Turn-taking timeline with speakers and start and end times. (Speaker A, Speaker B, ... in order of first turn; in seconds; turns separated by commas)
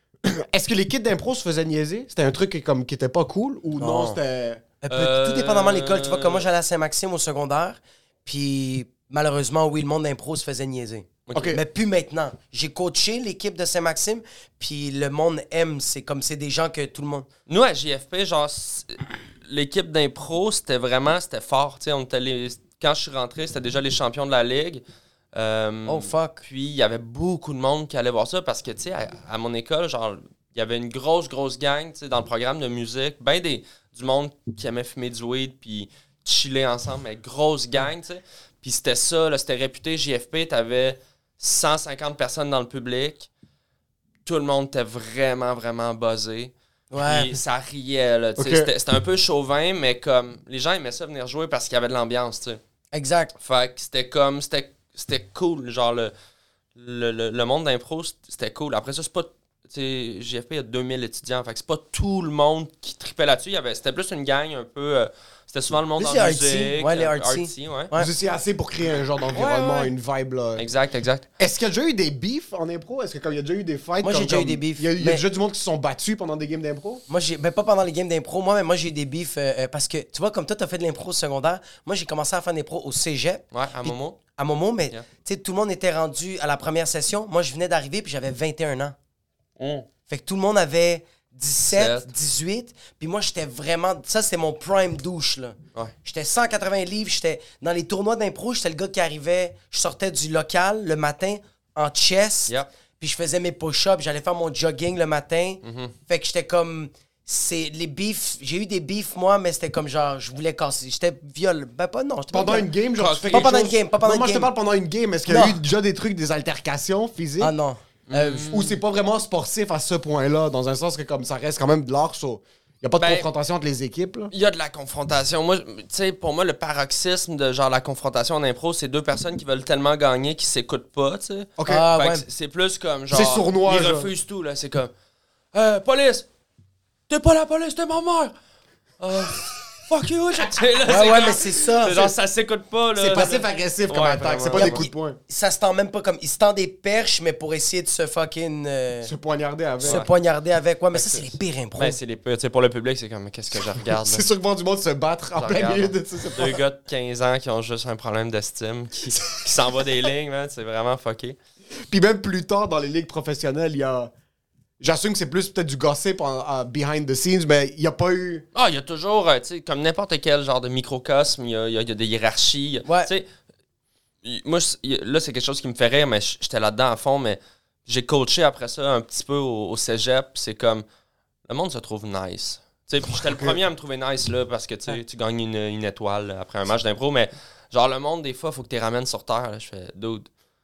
Speaker A: 0.2-4.6, Speaker B: 3.8-4.2, Speaker B: 4.8-17.3, Speaker C: 4.9-6.4, Speaker C: 11.3-11.6, Speaker A: 11.3-11.6, Speaker C: 17.5-24.8, Speaker C: 25.3-43.3, Speaker B: 25.9-26.4, Speaker C: 44.2-52.6, Speaker B: 46.9-47.4, Speaker A: 48.4-48.7, Speaker B: 52.9-53.4, Speaker C: 53.4-56.1, Speaker C: 56.8-67.9, Speaker B: 66.0-68.1, Speaker A: 67.9-70.7, Speaker C: 69.3-69.9, Speaker C: 70.6-71.3, Speaker A: 71.4-77.0, Speaker B: 74.0-75.2, Speaker B: 77.1-89.0, Speaker C: 83.5-84.2, Speaker C: 89.6-89.9, Speaker B: 90.1-112.7, Speaker C: 91.7-92.1, Speaker C: 105.6-106.0, Speaker A: 112.3-117.5, Speaker C: 113.0-113.7, Speaker B: 113.3-114.5, Speaker B: 115.3-115.6, Speaker B: 117.4-118.5, Speaker C: 118.1-118.8, Speaker A: 118.5-124.3, Speaker C: 123.0-123.3, Speaker C: 124.3-134.9, Speaker A: 131.6-131.9, Speaker B: 131.7-132.2, Speaker A: 133.1-134.1, Speaker C: 135.5-136.3, Speaker C: 137.1-138.3, Speaker C: 139.0-144.8, Speaker B: 140.8-142.1, Speaker A: 142.9-145.2, Speaker B: 144.6-149.1, Speaker A: 149.0-150.0, Speaker C: 149.8-150.1, Speaker B: 149.8-152.0, Speaker C: 150.9-154.3, Speaker A: 153.8-156.6, Speaker C: 155.3-161.4, Speaker A: 161.9-164.1, Speaker A: 164.8-168.5, Speaker C: 168.6-173.3, Speaker C: 174.2-180.8, Speaker C: 181.5-190.3